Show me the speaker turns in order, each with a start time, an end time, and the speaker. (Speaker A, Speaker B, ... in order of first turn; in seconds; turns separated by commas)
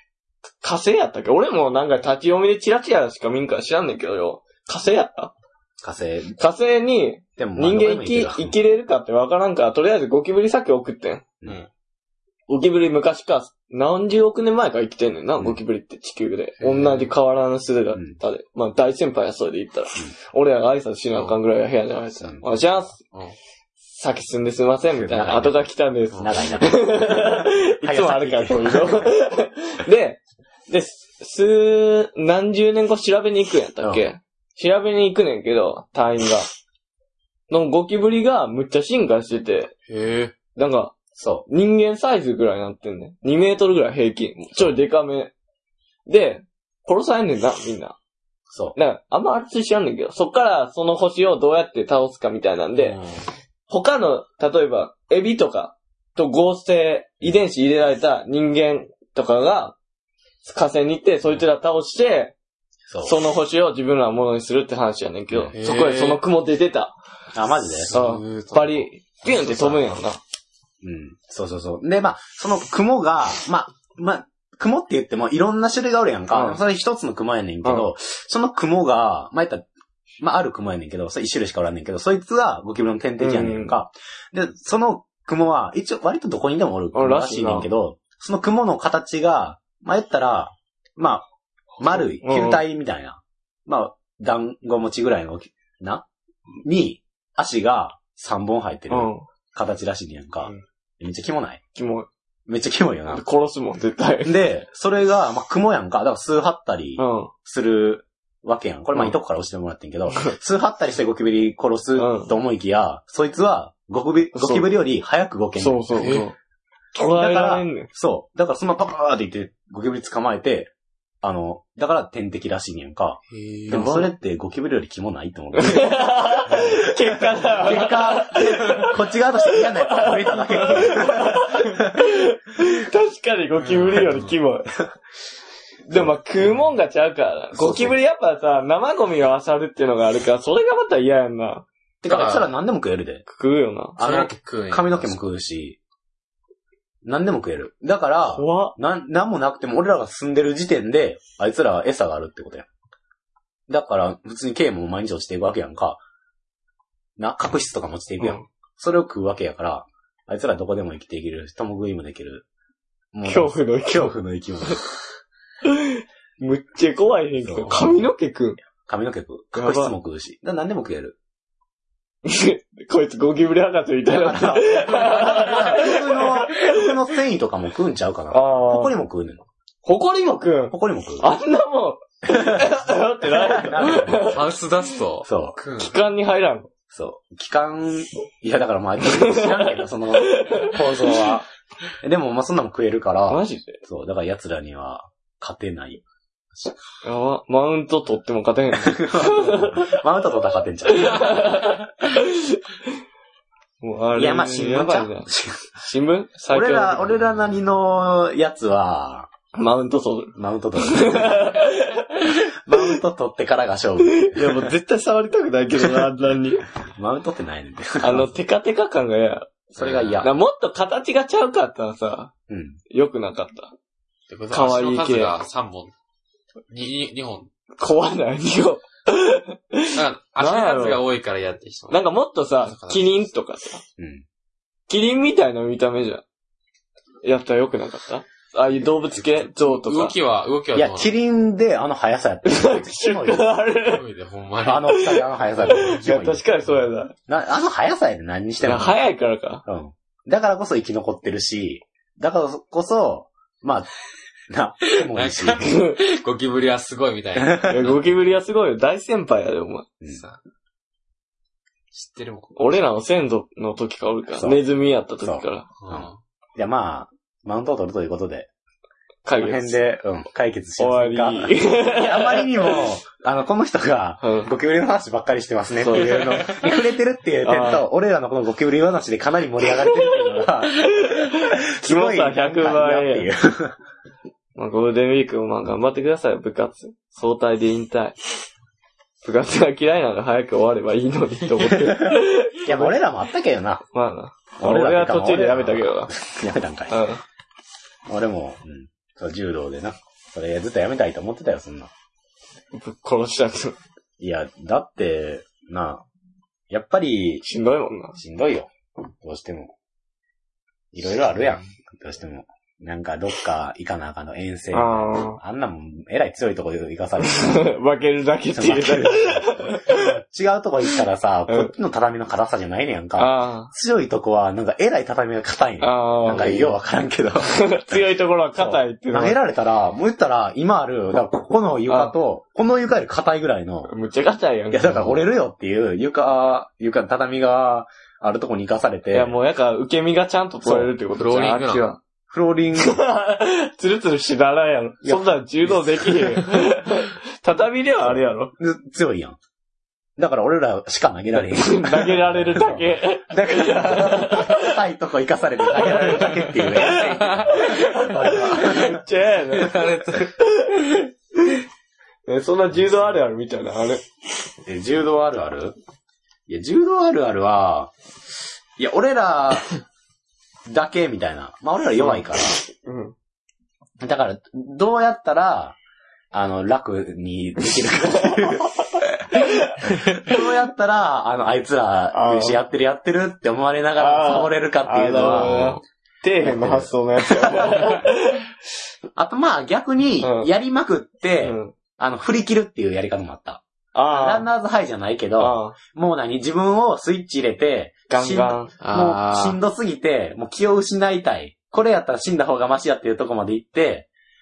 Speaker A: 0.6-5.3, Speaker B: 5.8-6.4, Speaker A: 6.4-11.2, Speaker B: 7.4-8.6, Speaker A: 12.5-23.0, Speaker C: 16.6-17.1, Speaker C: 21.1-21.4, Speaker B: 22.2-22.4, Speaker C: 22.9-23.4, Speaker A: 23.9-36.5, Speaker B: 25.0-25.7, Speaker C: 26.1-26.4, Speaker B: 26.2-29.1, Speaker B: 33.8-34.1, Speaker A: 37.5-39.7, Speaker C: 39.9-40.4, Speaker A: 40.5-41.0, Speaker B: 41.2-41.5, Speaker A: 41.5-45.3, Speaker A: 46.1-48.0, Speaker B: 48.5-48.8, Speaker A: 48.8-53.0, Speaker C: 52.8-53.2, Speaker A: 53.7-59.8, Speaker A: 60.4-62.3, Speaker B: 62.9-63.2, Speaker A: 63.0-67.0, Speaker C: 65.5-66.2, Speaker B: 67.3-68.0, Speaker C: 67.7-69.9, Speaker A: 67.9-70.2, Speaker B: 70.8-79.7, Speaker A: 76.3-76.6, Speaker A: 77.6-77.9, Speaker B: 80.2-91.3, Speaker A: 83.2-83.8, Speaker A: 86.9-87.7, Speaker B: 91.8-96.0, Speaker A: 92.0-92.6, Speaker B: 96.6-101.6, Speaker A: 98.9-99.2, Speaker A: 101.8-102.1, Speaker B: 102.5-103.2, Speaker A: 103.1-104.4, Speaker B: 104.2-116.1, Speaker A: 107.0-107.3, Speaker A: 112.0-112.3, Speaker A: 114.3-114.7, Speaker A: 115.6-116.4, Speaker C: 116.0-116.3, Speaker A: 116.9-117.9, Speaker B: 117.0-120.7, Speaker B: 121.2-126.8, Speaker C: 123.3-123.9, Speaker A: 123.7-124.1, Speaker A: 125.5-134.7, Speaker B: 127.5-132.0, Speaker C: 133.6-134.3, Speaker A: 135.9-141.7, Speaker B: 137.5-138.0, Speaker B: 142.0-143.2, Speaker C: 142.1-142.5, Speaker A: 143.3-144.0, Speaker B: 144.0-145.8, Speaker C: 144.0-145.3, Speaker B: 147.0-152.7, Speaker A: 148.3-148.8, Speaker B: 153.7-156.0, Speaker B: 157.2-162.4, Speaker A: 158.2-158.5, Speaker B: 163.1-164.8, Speaker A: 163.2-164.1, Speaker A: 165.7-168.6, Speaker B: 167.4-168.0, Speaker C: 167.7-168.0, Speaker B: 168.9-171.2, Speaker A: 169.6-169.9, Speaker A: 172.2-176.9, Speaker B: 174.1-179.4, Speaker A: 178.3-179.0, Speaker A: 179.8-184.5, Speaker B: 180.7-181.3, Speaker B: 182.3-182.7, Speaker B: 183.3-184.4, Speaker C: 184.2-186.0, Speaker B: 185.2-185.6, Speaker A: 185.8-186.7, Speaker B: 186.9-191.5, Speaker A: 189.0-191.2, Speaker B: 192.0-196.0, Speaker A: 193.3-193.8, Speaker A: 197.0-200.0, Speaker B: 198.8-201.6, Speaker A: 200.9-202.6, Speaker A: 203.8-207.1, Speaker B: 204.2-205.7, Speaker B: 206.5-209.3, Speaker A: 209.5-213.0, Speaker B: 210.4-211.6, Speaker B: 212.3-214.7, Speaker A: 214.1-216.6, Speaker B: 216.9-218.3, Speaker A: 218.0-219.5, Speaker B: 219.7-220.3, Speaker C: 219.8-220.3, Speaker A: 220.2-222.3, Speaker B: 222.5-222.8, Speaker A: 222.9-223.7, Speaker C: 224.3-225.9, Speaker A: 224.5-225.3, Speaker C: 226.7-227.5, Speaker A: 227.8-231.0, Speaker C: 229.9-232.0, Speaker A: 231.9-233.8, Speaker C: 232.6-233.3, Speaker B: 234.0-234.2, Speaker A: 234.9-236.2, Speaker A: 237.2-240.2, Speaker C: 239.2-241.1, Speaker B: 240.7-243.6, Speaker A: 242.4-244.0, Speaker C: 243.8-245.1, Speaker B: 244.6-246.5, Speaker A: 244.9-247.1, Speaker C: 245.6-246.1, Speaker B: 247.3-248.9, Speaker A: 248.6-249.6, Speaker B: 249.7-253.9, Speaker B: 254.5-255.7, Speaker C: 254.9-258.2, Speaker A: 255.6-256.0, Speaker A: 257.7-259.9, Speaker C: 260.1-260.4, Speaker C: 261.9-262.8, Speaker A: 262.6-265.7, Speaker B: 265.2-268.5, Speaker C: 265.8-266.2, Speaker A: 269.2-269.8, Speaker B: 269.3-283.8, Speaker A: 270.8-272.8, Speaker A: 274.2-274.5, Speaker A: 275.8-276.5, Speaker A: 277.4-277.9, Speaker A: 280.4-283.3, Speaker A: 284.6-288.2, Speaker A: 289.2-293.0, Speaker B: 291.7-293.8, Speaker A: 293.9-296.1, Speaker B: 294.6-297.0, Speaker A: 296.9-297.2, Speaker B: 298.1-301.9, Speaker A: 302.7-303.8, Speaker B: 304.2-306.0, Speaker B: 306.7-307.4, Speaker A: 307.4-308.2, Speaker B: 308.2-308.7, Speaker B: 309.2-309.7, Speaker B: 310.9-317.6, Speaker C: 311.3-311.7, Speaker A: 314.7-315.4, Speaker A: 317.2-320.2, Speaker B: 318.5-333.9, Speaker A: 323.2-323.7, Speaker A: 325.8-326.8, Speaker A: 327.5-329.4, Speaker A: 331.9-332.1, Speaker A: 333.9-335.1, Speaker B: 334.7-339.3, Speaker A: 339.1-342.0, Speaker C: 341.1-341.9, Speaker B: 342.3-343.0, Speaker A: 342.8-348.5, Speaker B: 345.0-346.3, Speaker B: 348.1-349.4, Speaker B: 350.2-359.0, Speaker A: 351.5-354.8, Speaker A: 355.7-361.6, Speaker C: 357.0-357.4, Speaker C: 359.6-360.2, Speaker A: 362.3-364.0, Speaker B: 364.6-365.8, Speaker B: 366.5-367.9, Speaker B: 368.8-369.7, Speaker B: 370.7-372.6, Speaker A: 372.8-373.1, Speaker B: 374.0-375.8, Speaker B: 376.3-379.3, Speaker A: 378.1-378.5, Speaker A: 379.3-380.4, Speaker B: 379.8-385.8, Speaker A: 382.1-382.6, Speaker A: 384.0-388.5, Speaker B: 386.4-388.0, Speaker B: 389.2-404.1, Speaker A: 390.2-390.5, Speaker A: 391.4-391.7, Speaker A: 393.9-394.5, Speaker A: 395.4-395.8, Speaker A: 398.1-398.7, Speaker C: 398.8-399.6